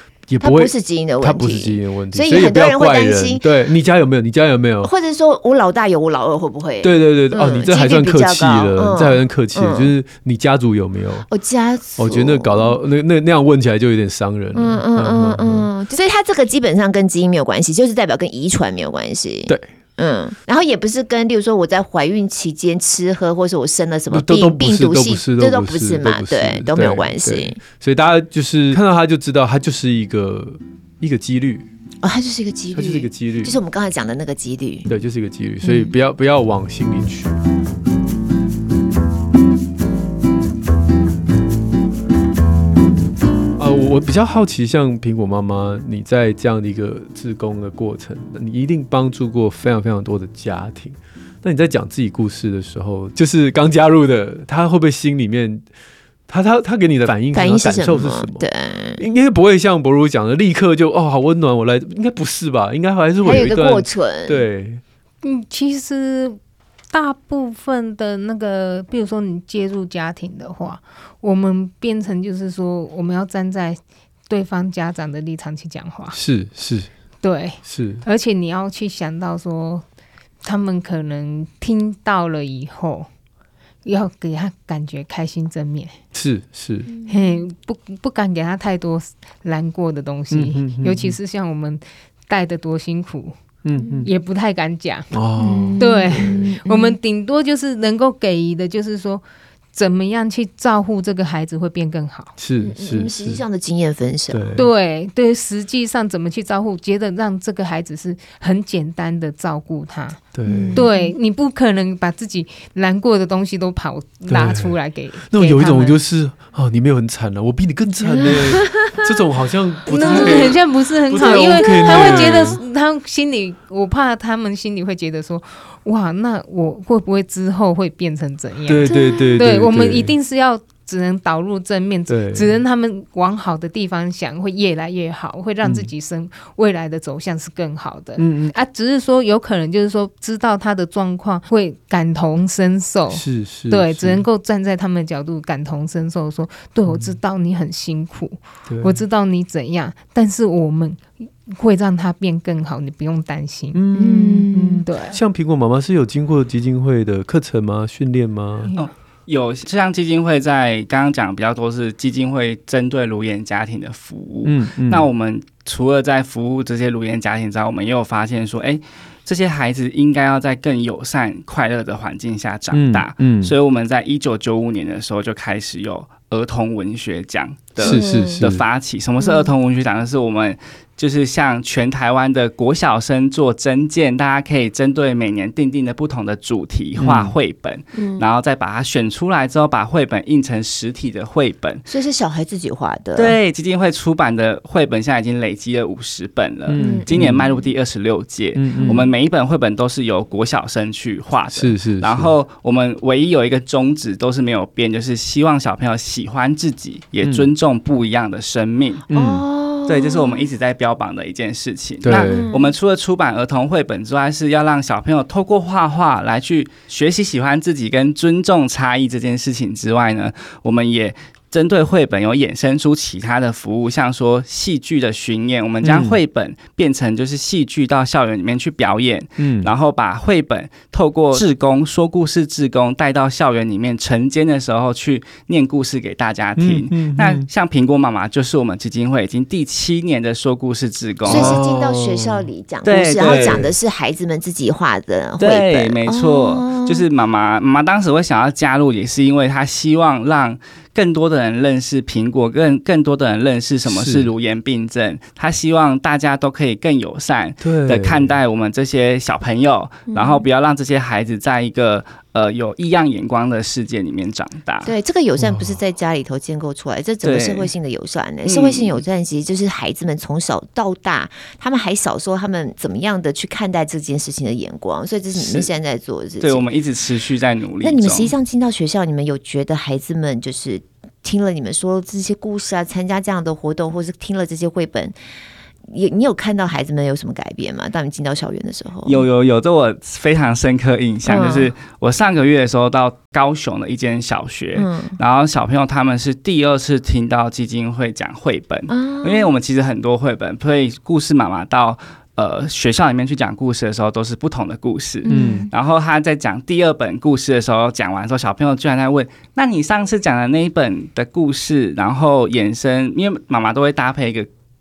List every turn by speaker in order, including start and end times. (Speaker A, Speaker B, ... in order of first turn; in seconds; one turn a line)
Speaker A: 0.3-4.9
Speaker B: 0.4-3.4
Speaker B: 4.8-9.9
Speaker A: 6.8-11.3
Speaker B: 11.3-12.8
Speaker A: 12.0-15.7
Speaker B: 14.5-27.6
Speaker A: 24.1-31.7
Speaker B: 32.0-34.9
Speaker A: 32.7-33.6
Speaker A: 34.9-37.4
Speaker B: 35.6-35.9
Speaker A: 43.6-55.6
Speaker A: 56.3-58.5
Speaker B: 57.3-59.0
Speaker A: 59.0-64.8
Speaker B: 63.2-64.4
Speaker C: 65.2-66.4
Speaker C: 66.9-76.2
Speaker A: 76.1-76.9
Speaker C: 77.2-79.8
Speaker A: 77.6-78.0
Speaker C: 80.4-83.1
Speaker C: 83.8-85.9
Speaker A: 86.1-86.9
Speaker B: 86.9-87.4
Speaker C: 87.1-93.3
Speaker A: 90.3-91.2
Speaker A: 93.6-94.1
Speaker B: 93.8-94.1
Speaker C: 94.0-95.1
Speaker A: 95.1-96.5
Speaker B: 95.4-97.0
Speaker C: 95.8-99.2
Speaker C: 99.7-102.3
Speaker A: 102.4-103.4
Speaker B: 102.6-104.6
Speaker A: 104.3-104.7
Speaker C: 104.5-110.2
Speaker A: 110.3-110.8
Speaker B: 110.5-111.1
Speaker C: 110.7-116.0
Speaker A: 114.3-114.8
Speaker A: 115.3-122.6
Speaker B: 118.0-119.0
Speaker C: 119.9-155.2
Speaker B: 119.9-120.5
Speaker B: 121.1-122.6
Speaker A: 128.7-130.2
Speaker B: 128.8-129.4
Speaker A: 132.1-132.6
Speaker A: 135.6-135.9
Speaker A: 138.2-138.5
Speaker A: 143.1-144.2
Speaker A: 146.9-147.2
Speaker A: 148.7-149.0
Speaker A: 153.7-158.7
Speaker B: 153.9-154.8
Speaker D: 158.7-191.8
Speaker A: 164.4-165.1
Speaker A: 172.7-173.5
Speaker B: 177.8-178.4
Speaker A: 177.8-178.6
Speaker B: 179.2-179.5
Speaker A: 187.0-187.3
Speaker B: 187.9-188.2
Speaker B: 191.9-193.4
Speaker D: 193.1-209.0
Speaker A: 196.7-197.4
Speaker B: 196.7-197.7
Speaker A: 198.5-199.1
Speaker B: 198.8-199.1
Speaker A: 201.5-202.3
Speaker A: 207.2-207.5
Speaker A: 209.1-209.4
Speaker B: 209.1-210.5
Speaker D: 209.8-241.6
Speaker A: 212.0-212.5
Speaker B: 212.1-212.7
Speaker A: 225.8-226.2
Speaker A: 229.4-229.7
Speaker A: 236.6-237.5
Speaker B: 241.2-247.0
Speaker A: 241.2-242.5
Speaker D: 242.8-243.7
Speaker A: 243.2-243.7
Speaker D: 245.4-264.9
Speaker A: 253.8-254.3
Speaker A: 257.6-258.3
Speaker B: 260.1-260.4
Speaker B: 264.8-276.7
Speaker A: 265.4-265.8
Speaker D: 267.2-267.7
Speaker D: 268.4-269.0
Speaker D: 275.3-275.7
Speaker D: 276.4-278.3
Speaker B: 277.8-285.1
Speaker B: 285.9-289.2
Speaker D: 289.1-314.5
Speaker B: 291.2-291.7
Speaker B: 294.7-295.1
Speaker B: 298.9-299.5
Speaker B: 305.2-305.7
Speaker A: 305.3-305.7